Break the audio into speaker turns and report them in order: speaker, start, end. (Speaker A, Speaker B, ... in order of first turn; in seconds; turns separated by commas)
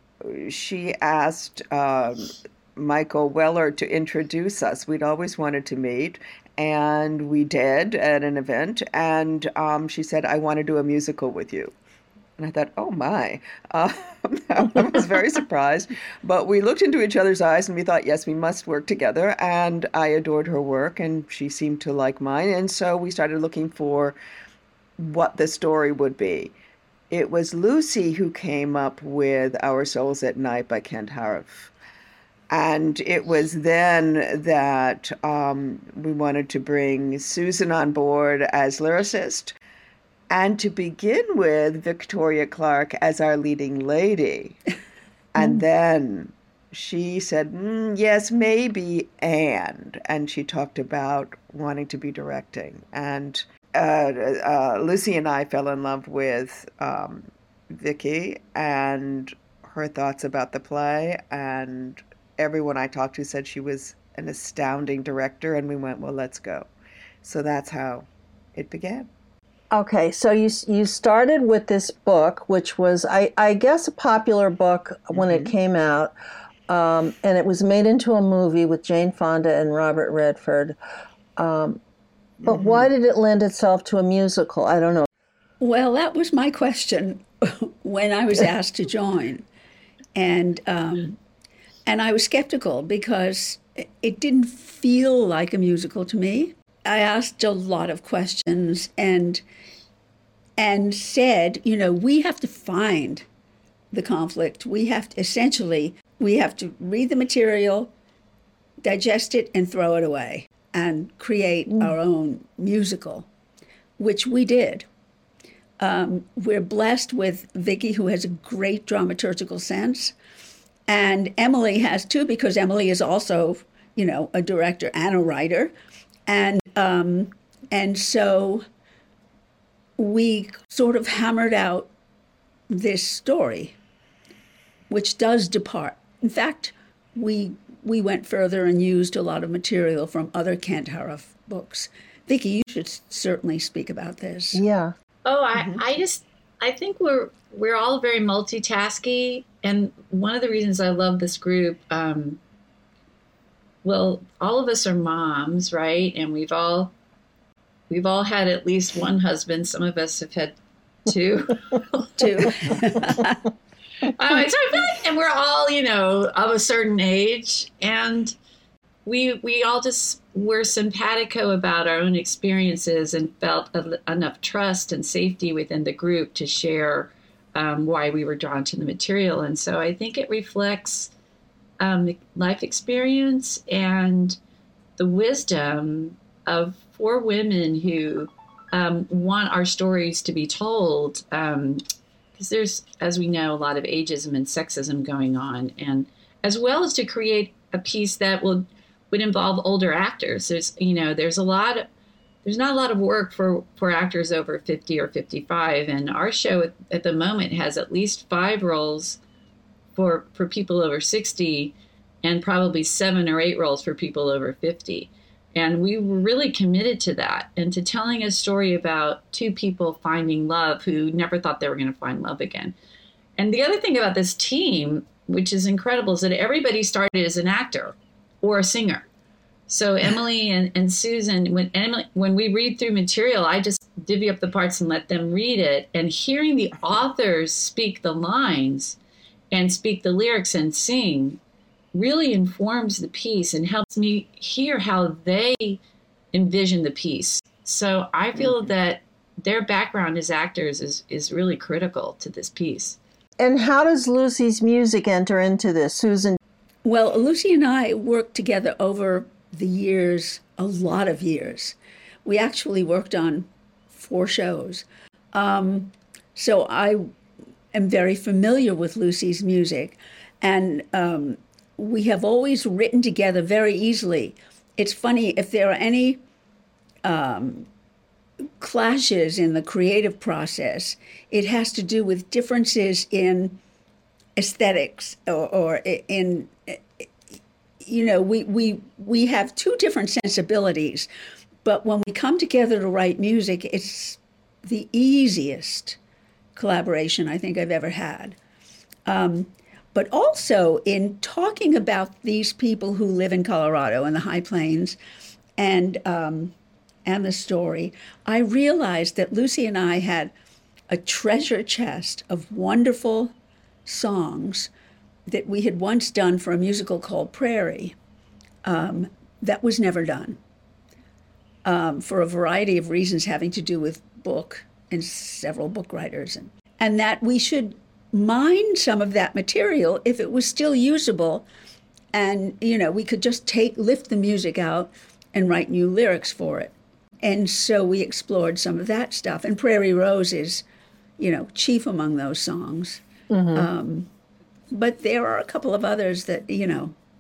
Speaker A: 0.2-11.8, Speaker A: 12.4-24.2, Speaker A: 25.0-26.6, Speaker A: 27.1-31.7, Speaker A: 32.5-39.5, Speaker A: 40.3-44.6, Speaker A: 45.3-66.7, Speaker A: 67.2-69.1, Speaker B: 69.7-76.1, Speaker A: 75.1-75.5, Speaker B: 76.7-80.8, Speaker B: 81.4-81.8, Speaker A: 82.4-82.9, Speaker B: 82.5-85.1, Speaker C: 85.6-89.5, Speaker C: 90.2-91.2, Speaker C: 91.9-99.4, Speaker C: 100.6-103.3, Speaker C: 103.9-107.9, Speaker C: 108.8-113.3, Speaker C: 114.0-114.9, Speaker C: 115.8-120.2, Speaker C: 120.9-125.7, Speaker C: 126.3-128.7, Speaker C: 130.0-131.9, Speaker C: 132.7-133.8, Speaker C: 134.9-144.6, Speaker B: 144.5-144.9, Speaker D: 145.2-152.4, Speaker D: 153.8-156.9, Speaker D: 157.9-162.2, Speaker C: 162.2-163.4, Speaker D: 164.0-168.3, Speaker D: 169.1-181.1, Speaker D: 181.8-184.4, Speaker D: 185.0-191.8, Speaker D: 192.4-201.9, Speaker D: 202.4-209.2, Speaker D: 210.0-222.8, Speaker D: 223.4-229.1, Speaker D: 229.7-239.0, Speaker D: 239.5-241.4, Speaker D: 241.9-245.8, Speaker D: 246.3-253.0, Speaker A: 248.4-248.7, Speaker B: 253.4-256.4, Speaker C: 256.9-267.1, Speaker C: 267.7-276.2, Speaker C: 277.0-277.7, Speaker C: 278.6-283.6, Speaker C: 284.4-287.1, Speaker C: 287.8-291.1, Speaker C: 291.6-296.0, Speaker C: 296.6-298.4, Speaker C: 299.1-305.0, Speaker C: 305.6-310.3, Speaker C: 310.9-313.3, Speaker C: 313.9-314.7, Speaker C: 315.3-317.9, Speaker C: 318.6-320.4, Speaker C: 321.6-331.5, Speaker C: 332.1-340.6, Speaker C: 341.2-343.0, Speaker B: 343.3-343.7, Speaker C: 343.5-344.1, Speaker C: 344.7-347.0